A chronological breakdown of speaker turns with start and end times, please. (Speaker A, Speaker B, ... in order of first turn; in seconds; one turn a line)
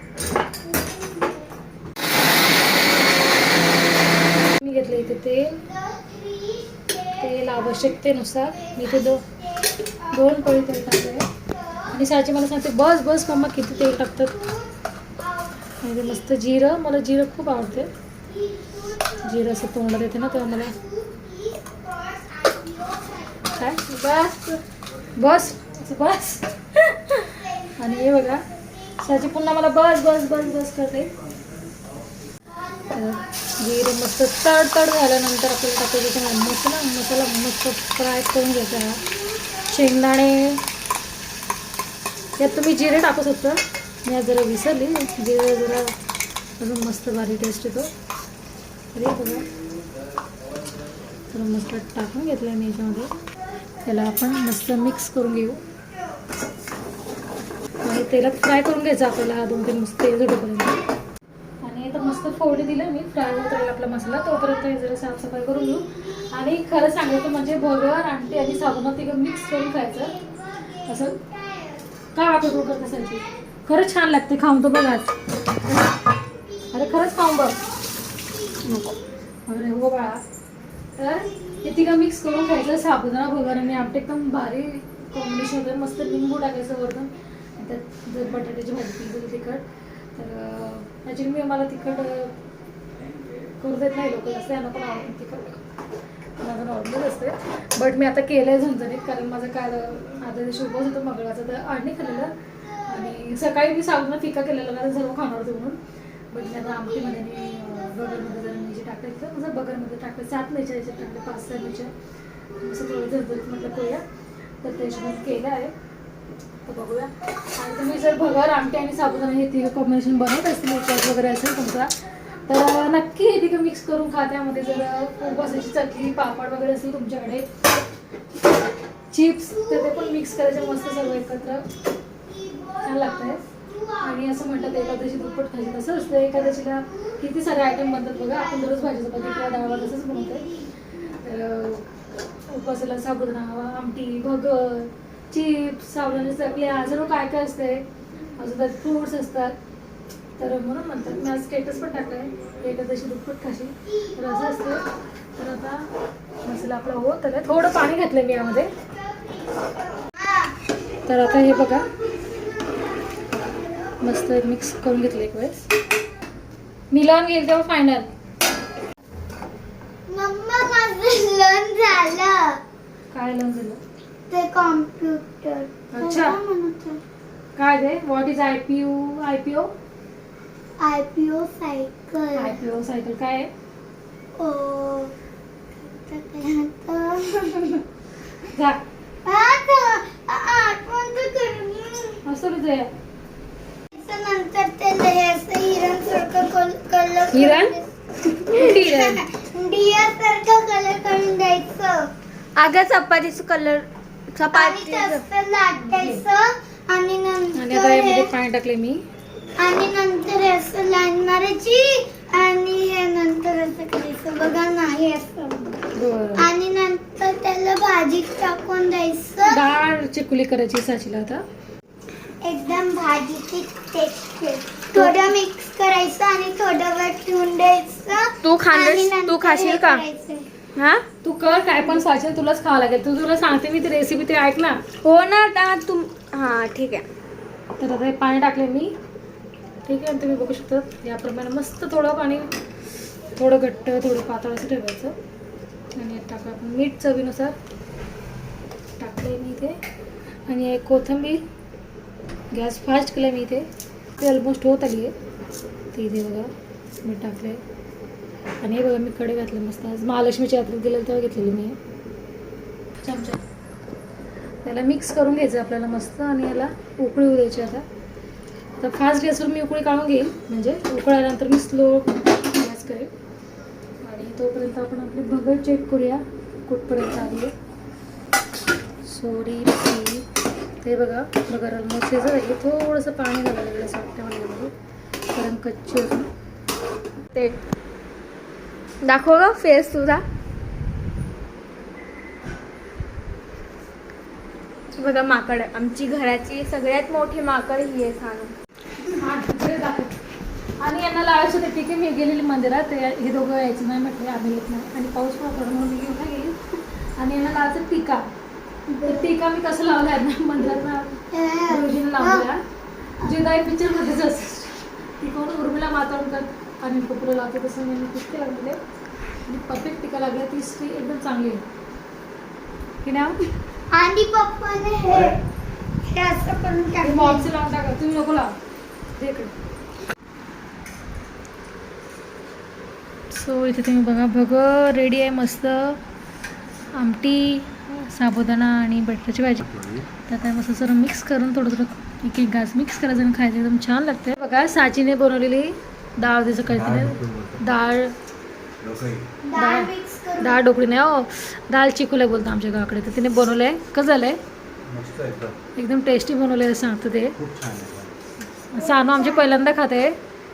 Speaker A: 0.5-1.5
Speaker B: 4.5-5.6
Speaker A: 5.6-7.6
Speaker B: 7.2-9.2
Speaker A: 8.6-10.4
Speaker B: 10.1-11.3
Speaker A: 11.4-11.9
Speaker B: 11.9-14.4
Speaker A: 14.1-15.6
Speaker B: 15.8-17.9
Speaker A: 18.3-23.8
Speaker B: 19.2-20.8
Speaker B: 23.5-24.4
Speaker C: 23.9-24.5
Speaker B: 25.2-28.4
Speaker A: 27.3-27.9
Speaker B: 29.0-31.1
Speaker B: 32.9-40.6
Speaker B: 42.4-45.9
Speaker B: 46.6-47.9
Speaker B: 48.9-49.5
Speaker B: 51.3-53.1
Speaker B: 53.8-55.6
Speaker B: 57.8-60.8
Speaker B: 61.6-70.2
Speaker B: 70.8-71.2
Speaker A: 71.2-71.8
Speaker B: 72.1-75.1
Speaker B: 76.7-77.6
Speaker C: 78.7-78.9
Speaker B: 79.5-80.2
Speaker B: 81.0-89.7
Speaker B: 90.2-92.3
Speaker B: 93.6-95.6
Speaker B: 96.4-105.8
Speaker B: 106.3-111.9
Speaker B: 112.6-114.0
Speaker B: 114.6-115.7
Speaker B: 116.7-121.9
Speaker B: 122.5-127.5
Speaker B: 129.1-131.7
Speaker A: 132.2-135.3
Speaker B: 132.8-133.5
Speaker B: 134.0-140.5
Speaker A: 137.5-140.7
Speaker B: 141.0-141.9
Speaker B: 142.5-147.8
Speaker B: 148.4-149.6
Speaker B: 150.4-154.8
Speaker B: 155.4-155.9
Speaker B: 156.4-158.7
Speaker A: 158.8-160.6
Speaker B: 161.1-161.9
Speaker A: 161.4-163.1
Speaker B: 164.0-165.7
Speaker B: 166.9-168.1
Speaker A: 170.1-172.6
Speaker B: 173.1-173.8
Speaker A: 174.3-177.0
Speaker B: 175.9-176.4
Speaker B: 177.6-179.7
Speaker A: 180.8-182.6
Speaker B: 182.3-183.5
Speaker A: 184.4-185.1
Speaker A: 185.8-187.9
Speaker B: 188.4-188.8
Speaker A: 189.2-192.2
Speaker B: 192.2-192.9
Speaker A: 193.9-197.9
Speaker B: 197.3-199.2
Speaker A: 198.5-202.1
Speaker C: 202.6-205.2
Speaker A: 204.5-208.3
Speaker B: 205.8-206.2
Speaker B: 207.6-209.0
Speaker A: 209.6-215.8
Speaker B: 215.9-216.5
Speaker A: 216.4-219.7
Speaker B: 219.4-221.4
Speaker A: 222.4-230.5
Speaker B: 225.0-225.2
Speaker C: 228.4-230.0
Speaker C: 230.8-231.1
Speaker B: 231.2-234.8
Speaker C: 235.0-237.1
Speaker B: 237.8-238.9
Speaker B: 239.8-242.5
Speaker B: 243.3-245.2
Speaker B: 246.0-247.6
Speaker B: 249.0-249.8
Speaker B: 250.5-251.4
Speaker B: 252.5-255.1
Speaker B: 255.9-257.6
Speaker B: 258.6-261.8
Speaker B: 263.0-263.4
Speaker B: 264.6-267.8
Speaker B: 268.8-273.1
Speaker B: 274.0-277.5
Speaker B: 279.0-280.3
Speaker B: 280.8-284.7
Speaker B: 285.3-286.3
Speaker C: 289.0-290.2
Speaker C: 294.9-298.5
Speaker B: 299.1-300.1
Speaker B: 300.8-306.6
Speaker B: 307.2-308.3
Speaker A: 308.9-309.3
Speaker B: 309.0-312.6
Speaker A: 311.3-312.5
Speaker B: 313.2-318.8
Speaker B: 319.5-321.6
Speaker B: 323.0-323.4
Speaker A: 323.9-325.4
Speaker A: 326.1-327.5
Speaker B: 327.0-328.6
Speaker B: 329.1-329.5
Speaker B: 333.3-336.0
Speaker B: 336.9-339.8
Speaker B: 340.3-348.1
Speaker D: 346.9-347.4
Speaker D: 348.8-349.2
Speaker A: 349.4-350.6
Speaker B: 349.6-354.4
Speaker D: 354.9-355.5
Speaker B: 355.8-357.4
Speaker D: 357.4-358.1
Speaker B: 358.7-360.2
Speaker A: 358.8-359.5